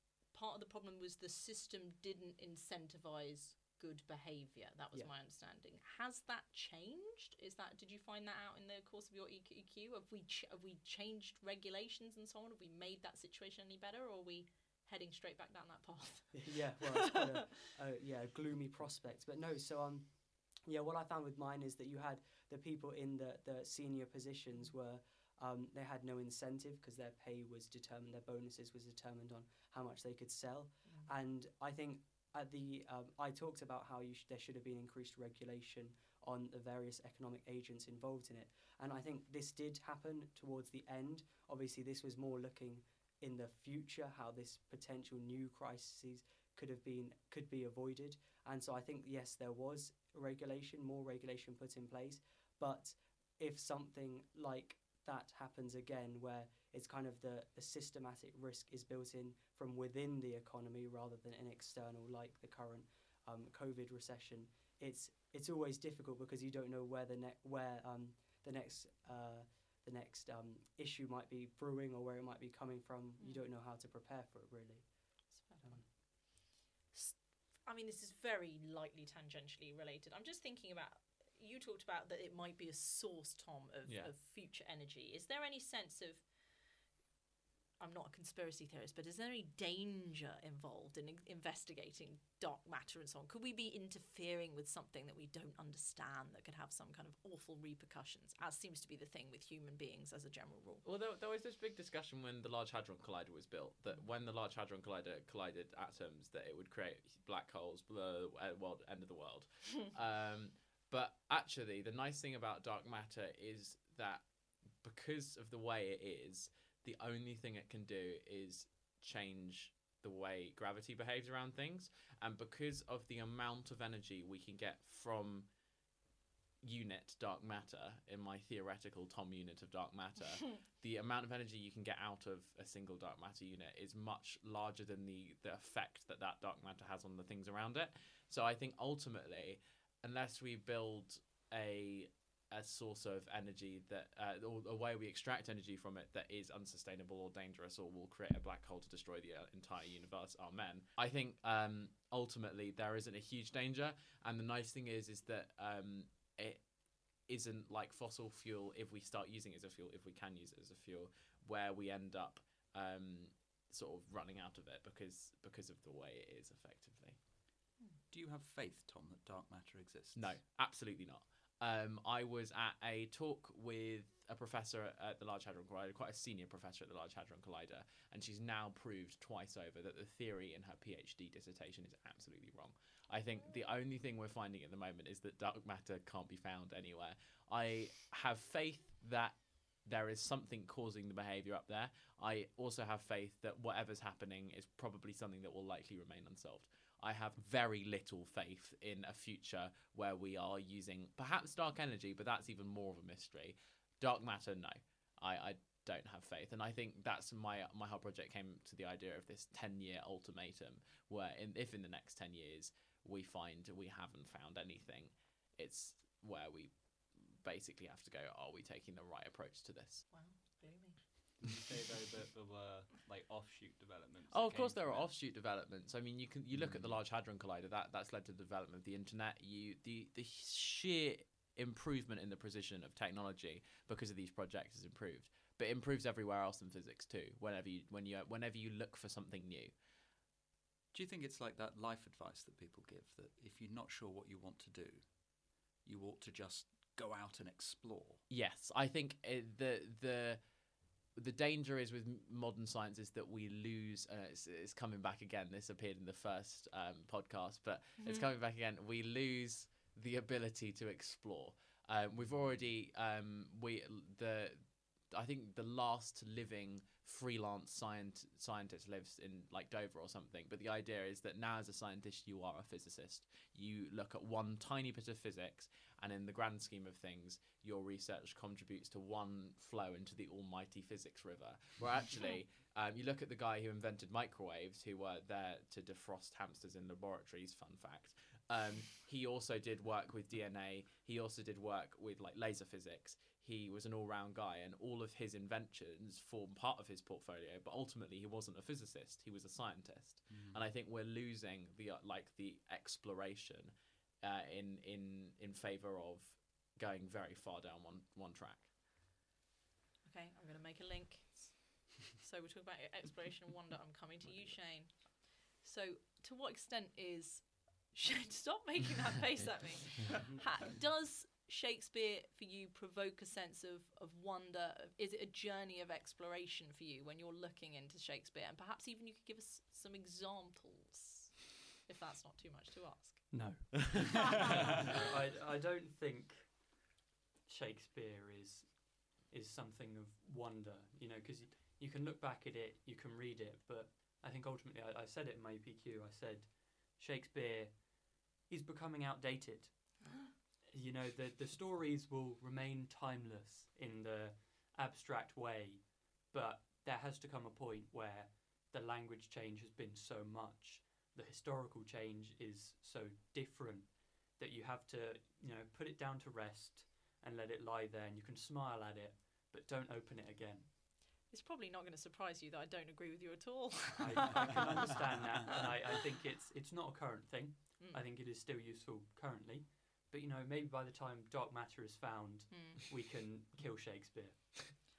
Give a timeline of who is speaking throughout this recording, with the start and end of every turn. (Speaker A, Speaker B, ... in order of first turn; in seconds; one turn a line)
Speaker A: 0.3-17.2
Speaker B: 16.3-75.9
Speaker A: 30.8-31.1
Speaker A: 73.2-73.5
Speaker A: 75.3-86.3
Speaker C: 83.8-84.1
Speaker A: 87.8-100.8
Speaker C: 100.8-125.5
Speaker C: 126.6-167.2
Speaker D: 168.1-170.4
Speaker C: 170.2-220.1
Speaker A: 220.1-221.0
Speaker E: 221.4-225.1
Speaker C: 224.3-239.7
Speaker D: 226.6-226.9
Speaker D: 240.9-245.2
Speaker D: 245.8-248.2
Speaker C: 248.3-250.4
Speaker C: 251.1-308.7
Speaker A: 258.0-258.3
Speaker D: 300.3-300.6
Speaker A: 310.1-333.6
Speaker F: 333.3-336.7
Speaker F: 337.5-347.9
Speaker F: 348.4-350.2
Speaker F: 350.7-370.7
Speaker A: 371.3-375.6
Speaker F: 374.0-384.8
Speaker A: 377.8-378.1
Speaker A: 382.5-382.8